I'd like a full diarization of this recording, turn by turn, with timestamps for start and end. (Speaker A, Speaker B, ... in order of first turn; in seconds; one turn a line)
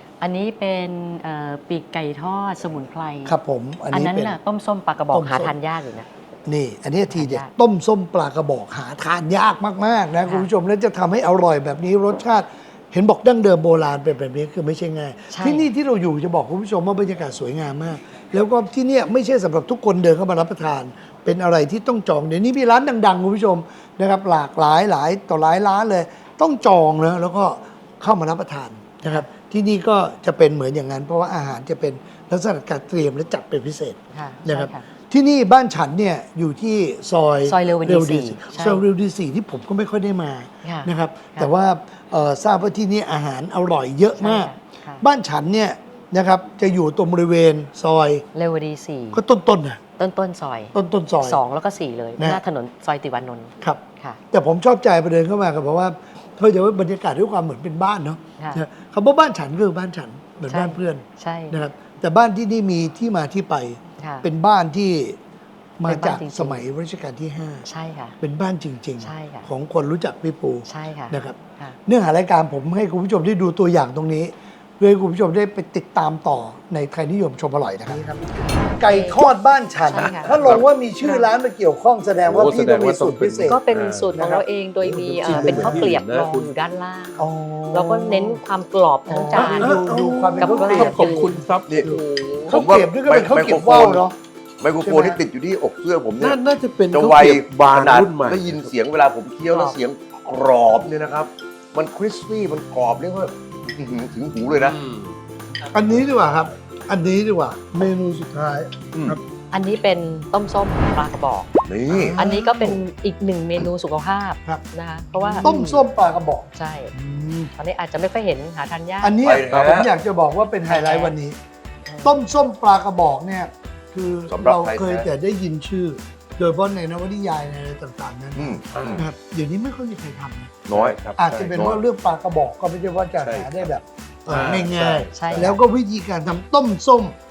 Speaker A: 0.2-3.4
Speaker B: 3.2-4.4
Speaker A: 3.9-6.1
Speaker B: 5.1-5.5
Speaker B: 6.5-48.2
Speaker A: 7.1-7.5
Speaker A: 15.3-15.7
Speaker A: 34.1-34.9
Speaker A: 37.4-38.8
Speaker A: 40.6-41.5
Speaker A: 44.2-45.0
Speaker A: 48.3-49.2
Speaker B: 49.1-49.8
Speaker A: 50.0-54.2
Speaker B: 50.7-51.4
Speaker B: 53.6-65.2
Speaker A: 60.5-61.6
Speaker A: 64.0-64.3
Speaker B: 65.8-67.7
Speaker A: 65.8-66.6
Speaker A: 67.7-68.2
Speaker B: 68.2-83.6
Speaker A: 69.0-69.5
Speaker A: 70.7-71.8
Speaker A: 78.4-79.2
Speaker A: 79.9-81.3
Speaker C: 82.3-86.5
Speaker A: 83.4-91.4
Speaker B: 84.1-84.4
Speaker B: 85.2-86.0
Speaker B: 87.2-88.4
Speaker B: 89.1-94.2
Speaker C: 89.3-92.6
Speaker D: 91.7-94.1
Speaker D: 94.6-104.9
Speaker B: 94.8-95.2
Speaker C: 96.2-98.7
Speaker A: 99.5-99.8
Speaker C: 104.6-104.9
Speaker B: 105.7-109.2
Speaker A: 109.5-111.5
Speaker D: 111.7-112.2
Speaker B: 111.9-112.8
Speaker A: 112.2-115.8
Speaker B: 115.2-117.5
Speaker A: 116.5-116.9
Speaker A: 117.5-119.2
Speaker B: 119.0-121.4
Speaker D: 119.2-119.9
Speaker A: 120.7-121.1
Speaker A: 121.8-122.2
Speaker B: 122.0-137.2
Speaker D: 124.3-125.1
Speaker D: 128.4-129.0
Speaker D: 130.7-131.8
Speaker C: 130.8-131.6
Speaker C: 133.2-133.5
Speaker C: 134.3-135.3
Speaker D: 134.4-134.7
Speaker A: 135.1-135.6